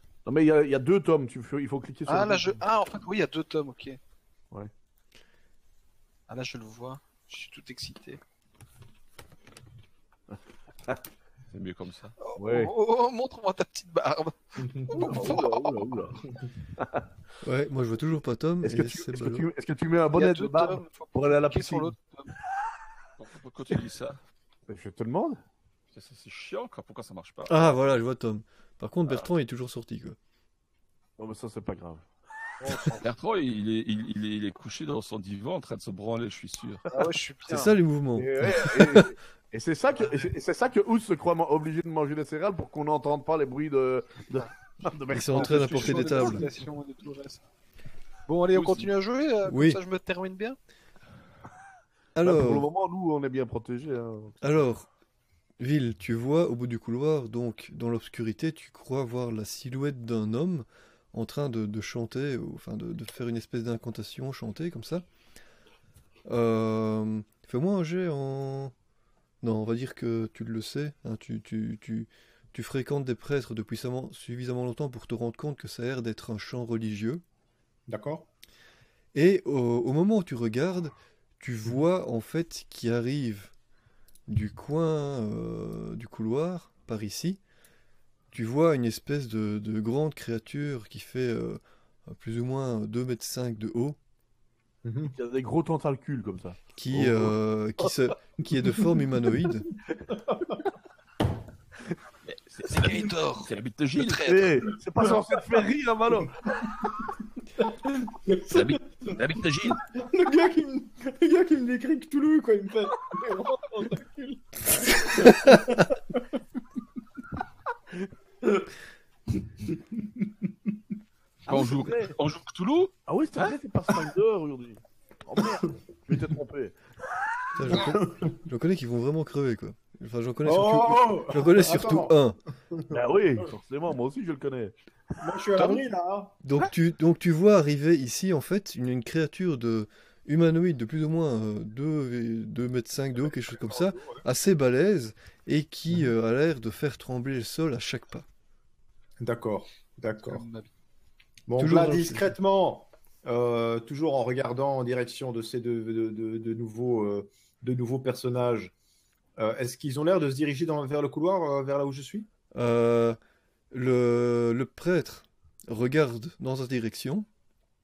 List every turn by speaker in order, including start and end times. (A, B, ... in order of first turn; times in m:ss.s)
0:00.2-0:02.6 A
0:02.0-0:04.0 B
0:06.3-0:08.2 B
0:10.3-0:11.0 A
0:11.5-0:12.1 C
0:12.2-0:15.8 B
0:12.4-0:12.7 A
0:14.6-0:14.9 D
0:14.9-0:17.1 A
0:17.4-0:19.4 E
0:18.6-0:21.9 A
0:20.1-0:22.3 B
0:23.2-0:24.2 C
0:24.7-0:25.4 A
0:25.9-0:27.5 C
0:27.5-0:30.2 E
0:31.2-0:32.0 A
0:32.6-0:33.1 B
0:33.0-0:36.9 C
0:36.9-0:37.8 B
0:37.5-0:39.1 E
0:38.2-0:46.5 A
0:45.1-0:46.5 E
0:45.3-0:47.4 B
0:48.3-0:50.6 B
0:48.5-0:48.9 A
0:49.4-0:49.8 E
0:52.1-0:52.7 E
0:52.2-0:54.4 A
0:54.4-0:54.9 E
0:55.6-1:05.0 E
1:06.2-1:08.7 E
1:09.4-1:17.2 E
1:17.9-1:18.2 D
1:19.1-1:23.5 E
1:24.3-1:27.4 E
1:28.3-1:34.0 E
1:34.8-1:35.1 D
1:35.1-1:37.9 A
1:36.7-1:39.7 E
1:40.1-1:40.6 D
1:42.5-1:44.4 C
1:42.6-1:44.5 B
1:44.1-1:46.6 A
1:46.6-1:47.0 D
1:47.6-1:49.2 D
1:48.5-1:49.8 C
1:49.9-1:56.4 D
1:59.5-2:00.3 D
2:01.4-2:02.2 A
2:01.5-2:02.9 C
2:01.5-2:01.9 B
2:03.0-2:06.7 A
2:07.5-2:12.4 E
2:07.7-2:08.3 D
2:10.4-2:12.1 D
2:12.7-2:13.0 D
2:12.9-2:14.7 A
2:15.2-2:16.3 D
2:16.4-2:28.2 E
2:23.6-2:24.2 D
2:29.2-2:30.4 D
2:30.3-2:30.7 B
2:31.5-2:38.7 D
2:31.6-2:32.3 E
2:39.4-2:42.3 D
2:42.5-2:43.2 E
2:43.7-2:47.3 E